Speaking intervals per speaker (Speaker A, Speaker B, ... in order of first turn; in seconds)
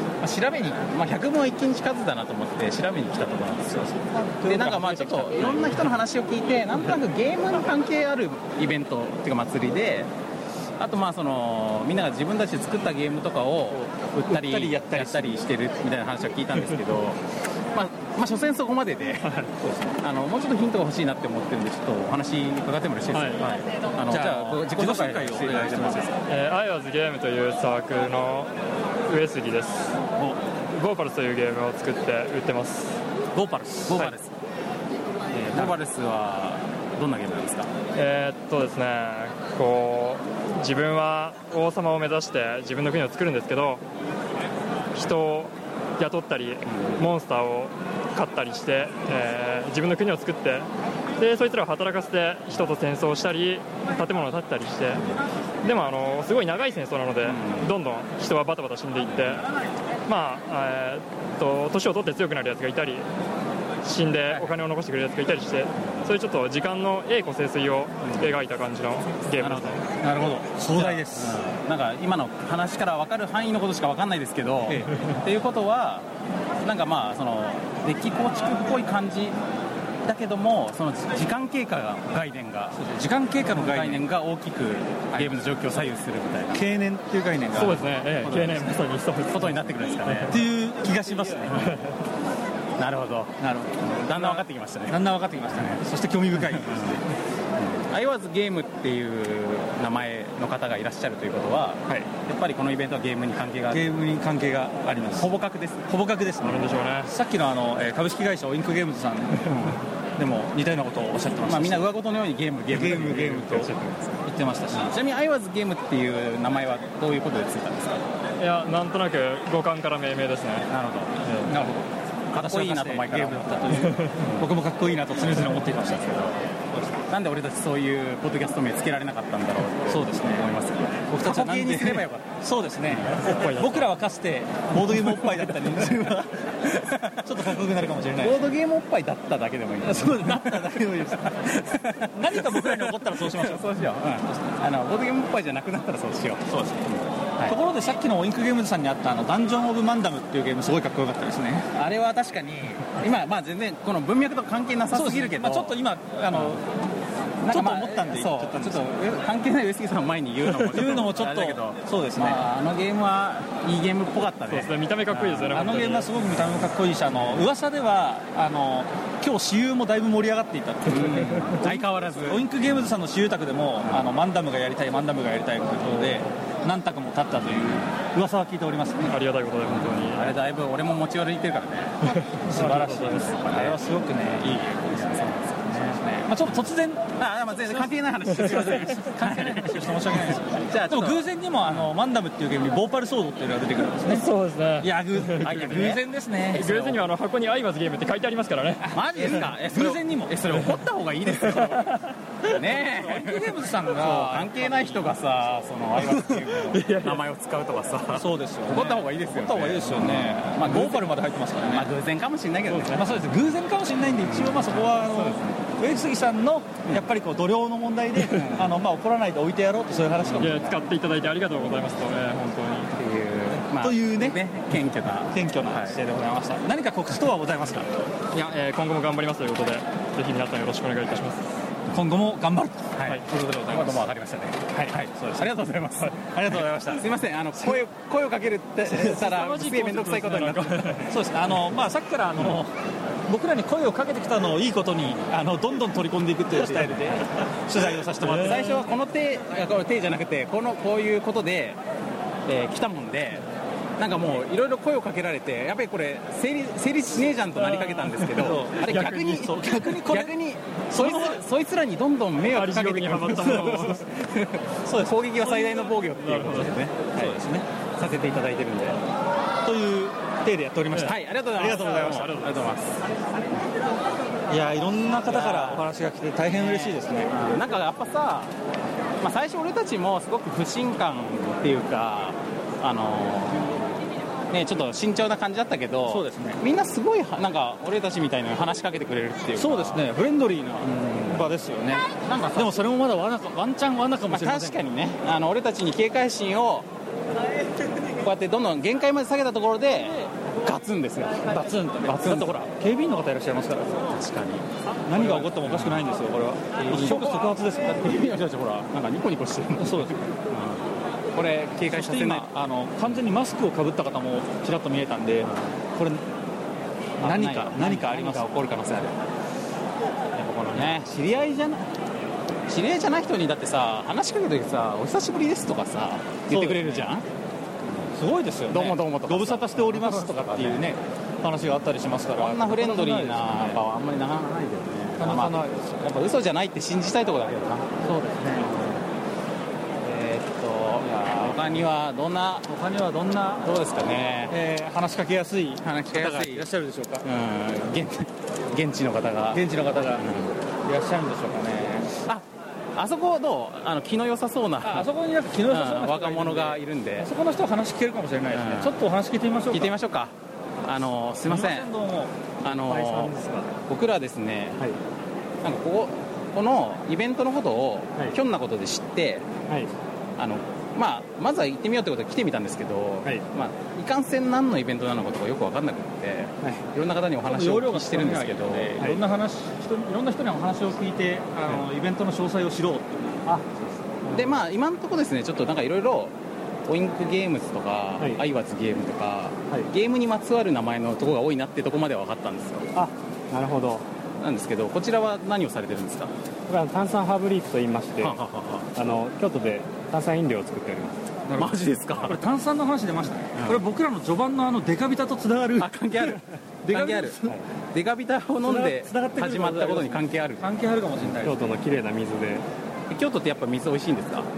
Speaker A: 0.2-10.1, 10.8-17.2, 17.7-19.4, 20.0-26.1, 33.9-34.3, 35.3-37.7, 46.7-47.0, 57.2-57.7, 65.8-66.1, 68.0-68.3, 69.4-69.9, 70.7-76.1, 76.6-79.4, 80.0-82.8, 83.5-86.6, 89.3-90.4, 92.8-95.8, 96.4-97.0, 97.6-103.9, 105.1-105.8, 111.4-114.2, 114.7-118.0, 120.7-124.5, 127.1-132.3, 132.9-133.4, 134.9-137.1, 138.2-147.6, 151.7-155.8, 157.4-165.7, 170.9-172.4, 177.4-177.8, 179.6-183.8, 184.4-186.6, 187.2-191.9, 195.4-196.0, 198.9-201.9, 202.4-211.1, 211.6-213.0, 214.2-215.6, 218.3-218.7, 220.2-220.5, 222.9-226.0, 233.0-241.1, 248.2-251.8, 252.4-253.4, 254.0-267.4, 267.9-269.0, 270.9-273.1, 275.2-275.9, 276.5-278.5, 279.2-283.7, 284.5-290.0, 292.2-292.8, 294.2-296.9, 298.2-302.7, 304.1-306.1, 306.8-312.5, 315.4-315.7, 317.2-319.2, 320.3-321.9, 322.7-327.2, 328.7-330.9, 332.3-337.9, 338.5-339.0, 340.0-342.7, 343.6-344.5, 345.8-346.7, 347.2-350.5, 352.2-355.1, 355.7-357.3, 358.5-358.9, 359.7-361.9, 362.6-364.8, 365.6-369.5, 370.4-379.1, 384.3-386.3, 386.9-392.9, 394.4-396.3, 398.2-398.9, 401.5-402.4, 403.6-403.8, 405.8-407.4, 407.9-410.6, 413.1-414.5
Speaker B: 3.7-6.0, 13.7-15.4, 19.6-19.9, 24.1-26.1, 33.3-34.1, 70.0-71.4, 82.7-84.1, 85.1-85.5, 86.5-88.8, 90.2-91.8, 93.4-97.0, 103.7-105.3, 105.9-112.0, 112.7-113.7, 114.2-114.9, 121.3-121.8, 122.3-127.0, 129.9-130.5, 131.1-136.3, 137.1-138.5, 139.8-141.4, 142.1-143.7, 144.3-144.6, 146.5-146.9, 147.4-151.7, 154.9-156.7, 157.5-158.8, 160.6-162.4, 165.2-179.2, 182.2-197.0, 198.8-200.7, 202.6-205.2, 206.0-206.3, 208.1-211.9, 212.7-220.8, 223.5-224.4, 225.3-227.9, 231.9-234.0, 234.7-237.1, 238.9-242.7, 243.3-248.8, 258.1-260.4, 260.9-261.4, 263.4-263.7, 264.9-265.9, 266.5-267.7, 269.6-272.5, 274.5-277.4, 286.1-286.6, 289.6-294.9, 301.5-304.0, 305.1-308.1, 309.8-310.2, 311.9-316.2, 317.2-318.6, 326.5-327.1, 328.1-333.8, 335.2-336.0, 338.0-338.9, 341.1-341.8, 342.7-343.7, 344.5-347.2, 349.5-350.3, 350.8-352.1, 354.8-359.9, 361.4-362.3, 377.4-383.4, 401.5-406.3, 406.8-407.6, 408.6-411.7
Speaker C: 23.1-23.4, 26.3-28.5, 29.1-29.9, 30.7-33.0, 37.9-43.8, 44.9-55.0, 55.6-59.5, 60.1-63.1, 63.8-69.8, 87.5-90.3, 106.4-107.1, 118.4-120.7, 133.4-133.8, 164.5-166.1, 179.1-180.3, 182.1-183.3, 194.1-195.6, 196.5-198.9, 201.5-201.8, 206.8-207.2, 220.4-222.9, 228.3-231.5, 239.7-241.0, 262.5-264.0, 266.2-266.8
Speaker D: 362.8-363.7, 383.4-384.5, 392.9-394.0, 396.7-398.4, 398.9-401.2, 411.4-412.6